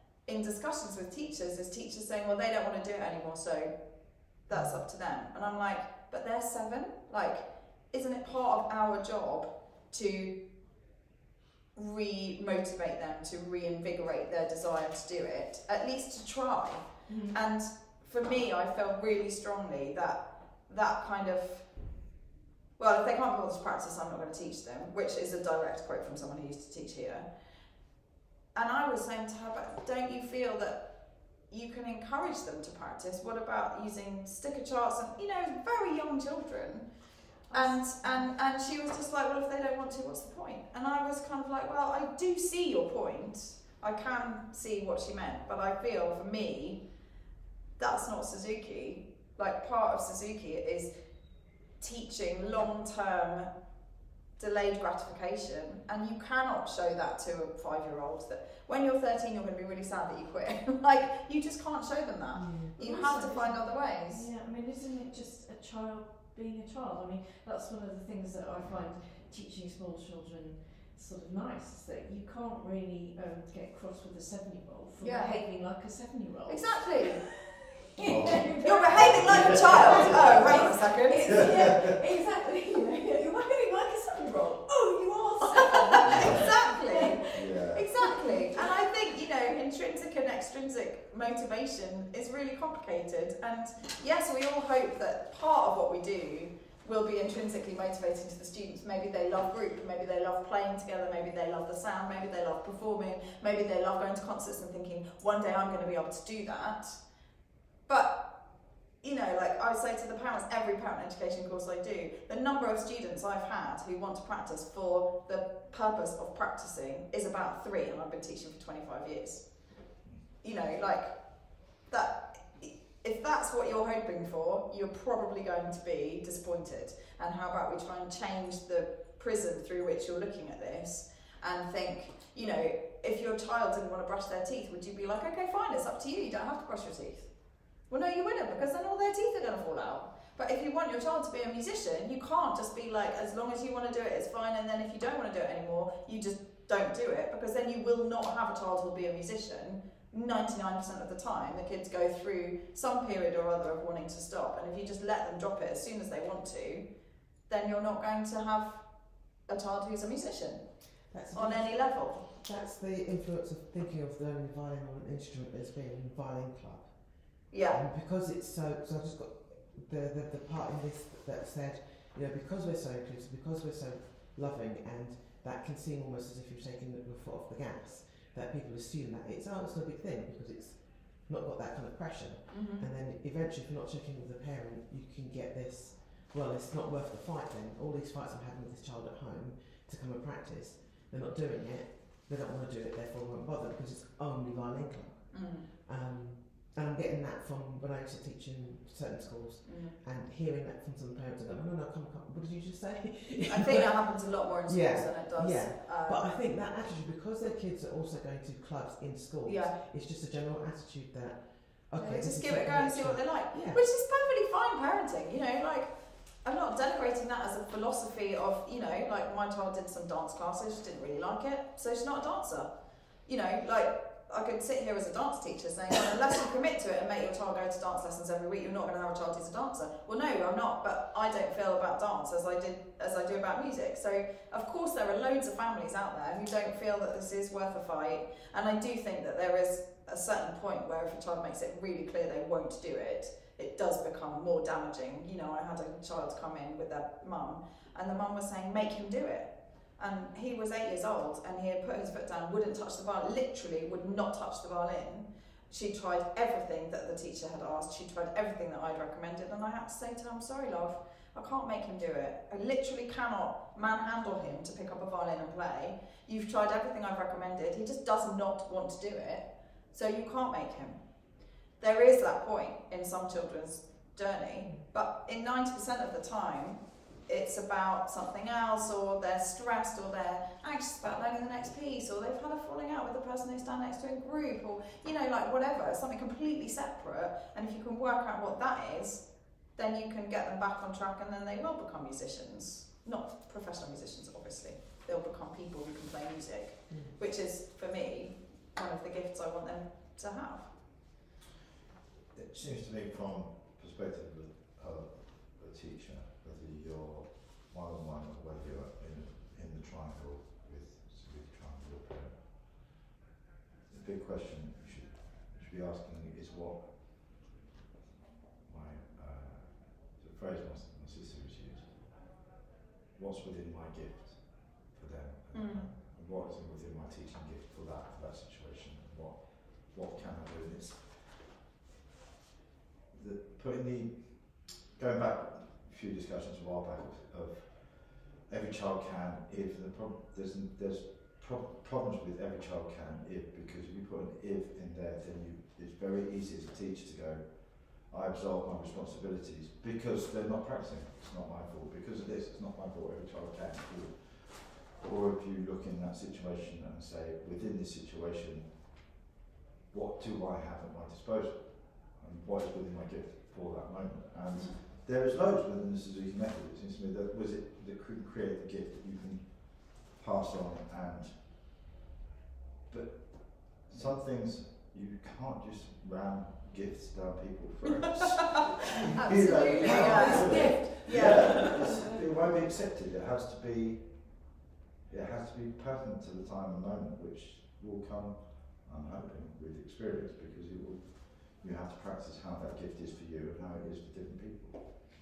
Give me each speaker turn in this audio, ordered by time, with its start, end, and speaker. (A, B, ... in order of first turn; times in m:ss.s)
0:00.2-0:10.4 A
0:04.5-0:04.8 B
0:11.7-0:21.9 A
0:17.1-0:17.4 C
0:22.8-0:27.2 A
0:28.5-0:36.8 A
0:37.5-0:38.3 C
0:37.5-0:46.9 A
0:47.8-0:50.9 A
0:51.5-0:53.5 A
0:54.4-1:04.3 A
1:02.3-1:02.7 B
1:02.8-1:28.7 C
1:15.0-1:15.4 A
1:16.5-1:17.2 A
1:18.0-1:20.7 D
1:18.6-1:21.4 A
1:21.2-1:22.0 D
1:25.5-1:47.0 A
1:26.0-1:26.5 D
1:27.3-1:27.9 D
1:47.8-2:17.3 A
2:17.9-2:36.8 A
2:37.4-2:42.2 A
2:41.1-3:33.8 B
2:47.5-2:47.8 A
3:02.5-3:02.8 A
3:15.3-3:15.7 A
3:19.6-3:20.0 A
3:23.4-3:26.3 A
3:29.4-3:29.8 A
3:31.9-3:42.7 A
3:43.2-4:31.0 A
4:31.8-5:00.7 A
4:56.9-4:57.2 B
5:02.3-5:13.0 D
5:13.9-5:17.3 D
5:18.6-5:22.4 D
5:23.1-5:31.2 D
5:25.5-5:25.9 A
5:33.1-5:59.0 D
5:59.9-6:11.6 D
6:12.9-6:24.6 D
6:19.1-6:21.7 A
6:19.3-6:22.0 C
6:25.1-6:35.0 D